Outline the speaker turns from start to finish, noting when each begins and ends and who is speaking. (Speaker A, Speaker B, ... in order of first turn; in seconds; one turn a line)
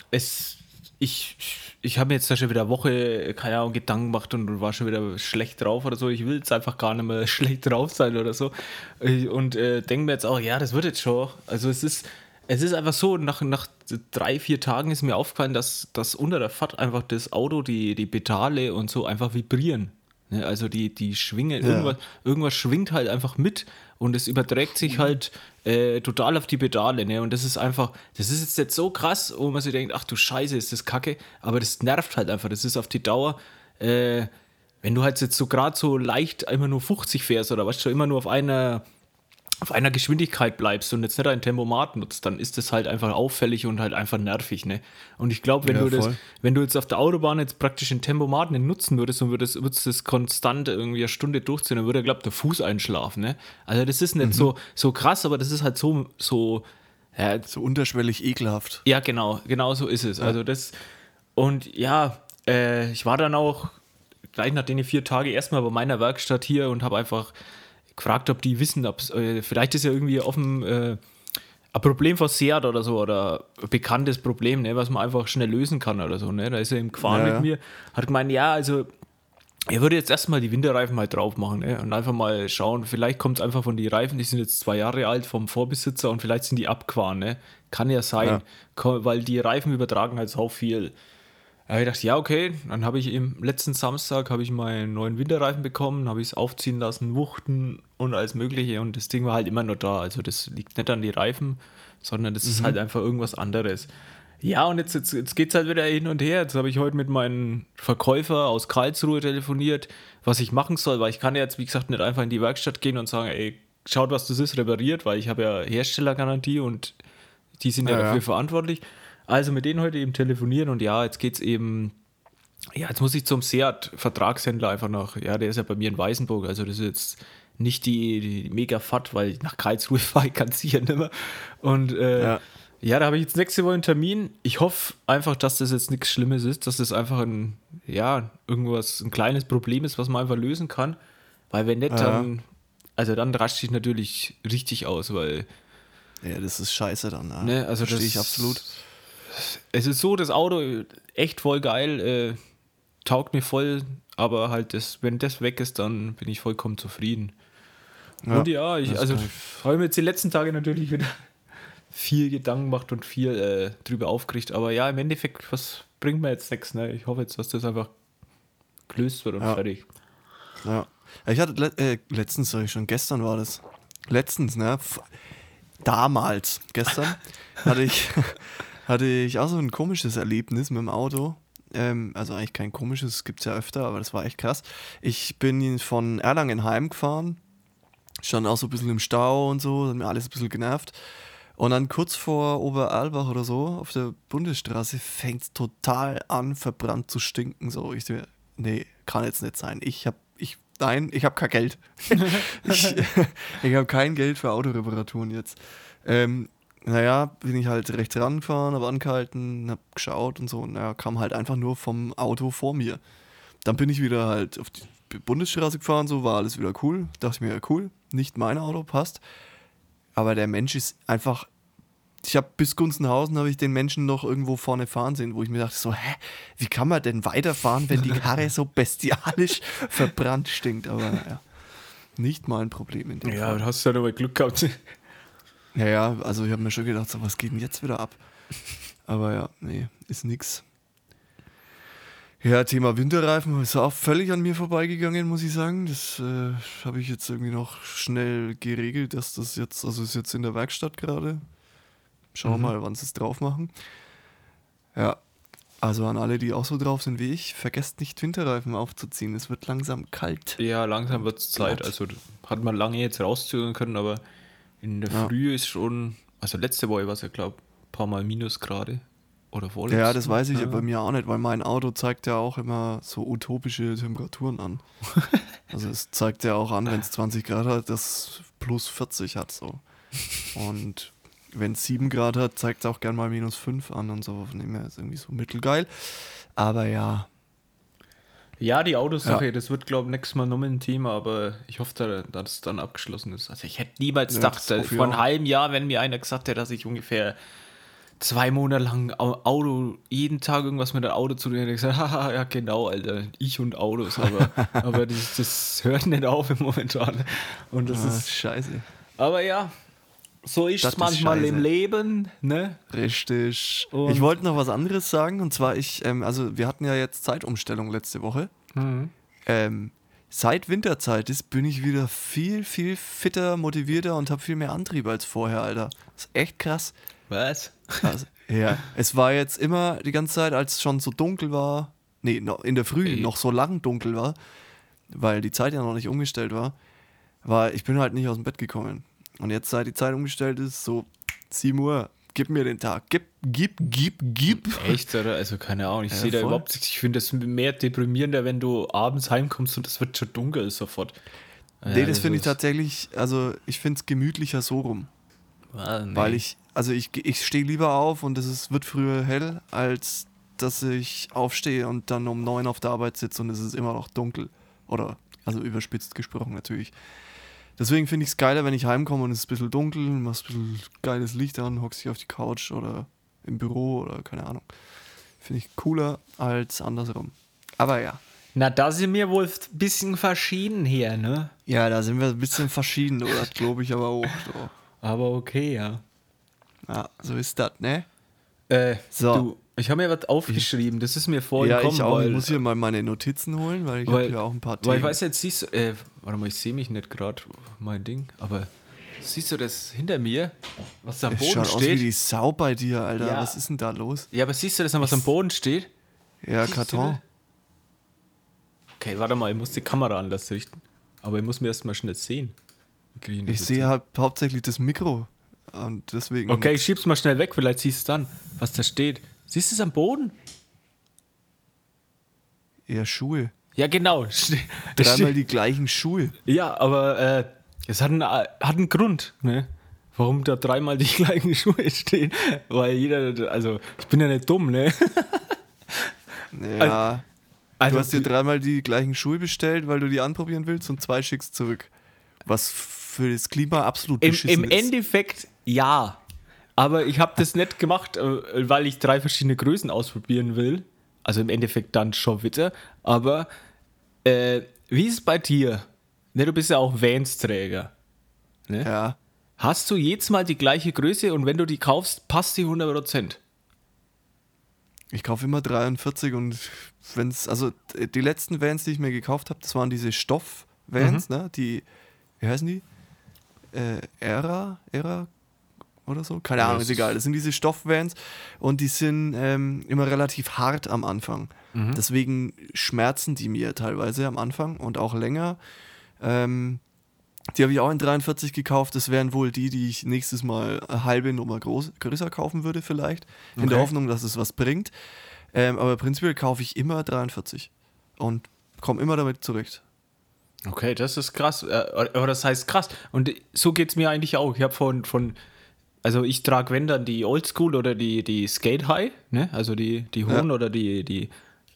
Speaker A: 0.1-34.3
Speaker B: 21.6-21.9
Speaker A: 34.8-38.8
Speaker A: 39.6-57.5
Speaker B: 45.6-46.2
Speaker B: 54.2-54.5
Speaker B: 57.5-58.8
Speaker A: 58.8-60.8
Speaker A: 61.4-63.8
Speaker A: 64.3-67.3
Speaker A: 67.9-71.0
Speaker A: 71.7-78.9
Speaker B: 77.0-77.5
Speaker A: 79.7-91.0
Speaker A: 91.7-103.9
Speaker B: 102.4-102.8
Speaker A: 104.4-117.0
Speaker A: 117.6-121.9
Speaker B: 117.8-118.2
Speaker A: 122.7-141.0
Speaker B: 132.2-132.4
Speaker A: 141.5-145.5
Speaker B: 141.9-142.3
Speaker B: 146.2-148.6
Speaker A: 147.4-148.8
Speaker A: 149.3-152.4
Speaker A: 153.0-157.3
Speaker B: 158.2-159.6
Speaker A: 158.3-161.2
Speaker A: 161.9-167.9
Speaker A: 168.9-169.8
Speaker B: 170.6-175.1
Speaker B: 175.8-187.4
Speaker B: 188.2-190.9
Speaker B: 191.6-213.0
Speaker A: 202.2-202.9
Speaker B: 213.6-219.2
Speaker B: 220.1-221.5
Speaker B: 222.2-231.4
Speaker B: 232.2-233.6
Speaker A: 233.2-234.8
Speaker B: 235.7-238.2
Speaker B: 239.1-240.6
Speaker B: 242.4-251.4
Speaker B: 252.3-253.7
Speaker A: 252.4-252.7
Speaker B: 254.9-255.2
Speaker B: 255.8-260.6
Speaker A: 260.6-264.2
Speaker B: 261.1-261.9
Speaker A: 264.8-270.9
Speaker B: 269.9-274.8
Speaker B: 275.7-279.8
Speaker B: 280.4-287.3
Speaker A: 288.6-297.4
Speaker B: 294.3-295.2
Speaker A: 298.2-308.3
Speaker B: 304.4-304.8
Speaker B: 307.9-308.9
Speaker A: 309.2-309.7
Speaker A: 310.4-312.8
Speaker B: 310.8-311.6
Speaker B: 312.9-318.5
Speaker A: 313.9-314.3
Speaker A: 318.7-319.1
Speaker B: 319.4-326.9
Speaker A: 327.3-328.1
Speaker B: 328.0-334.4
Speaker A: 333.0-333.3
Speaker B: 335.1-336.7
Speaker B: 337.4-345.0
Speaker A: 344.5-351.2
Speaker B: 346.1-346.6
Speaker A: 351.8-352.6
Speaker B: 351.9-355.1
Speaker A: 355.7-356.4
Speaker B: 356.1-366.9
Speaker B: 367.8-374.7
Speaker B: 375.4-378.2
Speaker A: 378.5-381.5
Speaker B: 381.7-384.7
Speaker A: 385.0-386.0
Speaker B: 386.9-388.1
Speaker A: 388.7-392.6
Speaker B: 389.1-389.5
Speaker B: 391.6-395.2
Speaker A: 394.1-398.7
Speaker A: 399.2-402.1
Speaker B: 401.3-404.3
Speaker A: 403.2-403.6
Speaker A: 404.3-405.9
Speaker B: 406.4-407.2
Speaker A: 406.7-407.2
Speaker A: 409.0-412.5
Speaker A: 413.1-413.9
Speaker B: 413.5-416.8
Speaker A: 416.5-420.4
Speaker B: 422.9-423.5
Speaker A: 423.8-425.3
Speaker B: 424.9-426.4
Speaker A: 426.4-436.1
Speaker B: 436.5-437.2
Speaker A: 437.8-438.3
Speaker B: 437.9-441.9
Speaker B: 442.4-444.9
Speaker A: 444.2-446.2
Speaker A: 446.8-453.5
Speaker A: 454.2-457.9
Speaker B: 458.8-459.2
Speaker A: 459.6-463.4
Speaker B: 465.1-471.8
Speaker A: 471.0-471.2
Speaker B: 472.4-472.8
Speaker B: 473.7-475.3
Speaker B: 476.1-485.6
Speaker A: 476.6-477.1
Speaker A: 481.7-482.0
Speaker B: 486.2-486.8
Speaker B: 487.5-494.9
Speaker A: 493.6-493.9
Speaker B: 495.5-499.8
Speaker A: 500.6-505.4
Speaker A: 506.0-511.3